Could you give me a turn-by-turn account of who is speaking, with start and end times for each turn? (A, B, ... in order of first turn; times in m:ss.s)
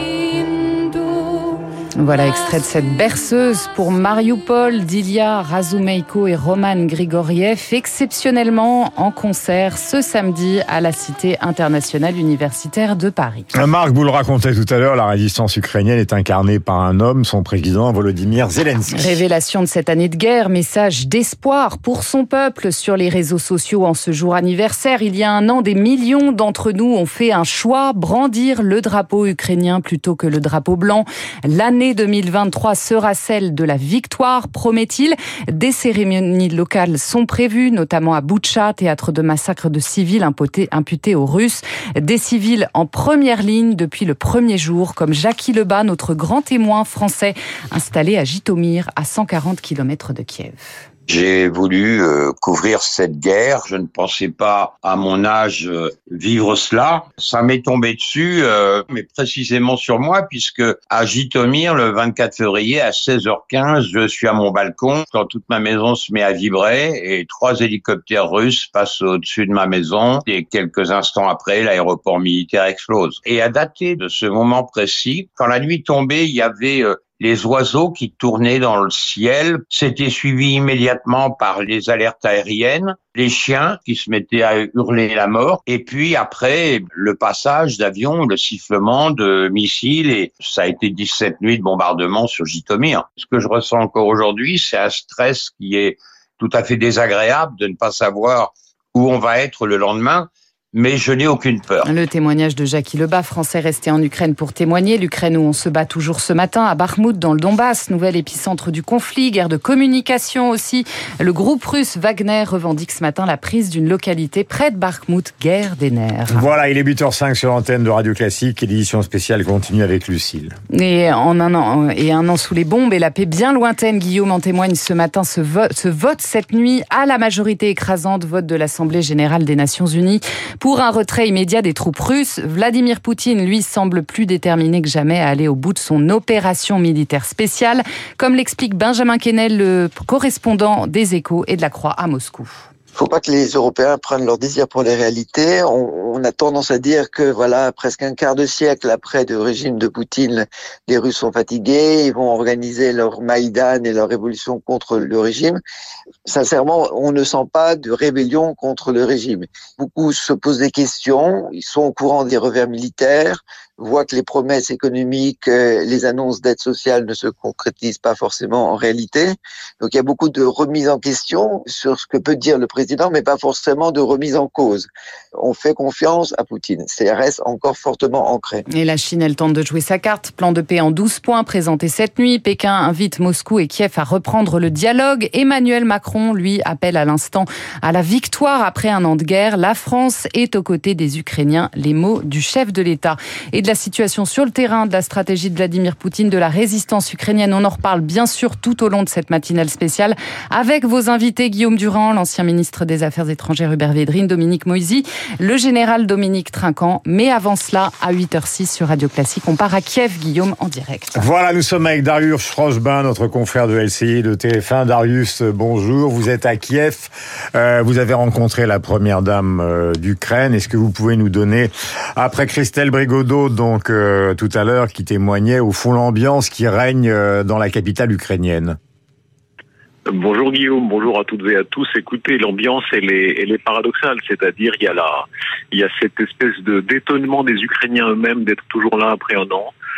0:02.0-0:13.5 A
0:13.5-0:19.2 B
0:18.9-0:50.8 A
0:51.1-1:41.9 C
1:41.8-1:56.4 A
1:56.3-2:00.5 B
2:00.7-2:22.5 A
2:22.9-2:35.6 D
2:36.2-2:58.6 D
2:58.7-3:31.2 A
3:31.1-3:48.8 B
3:50.1-3:59.7 E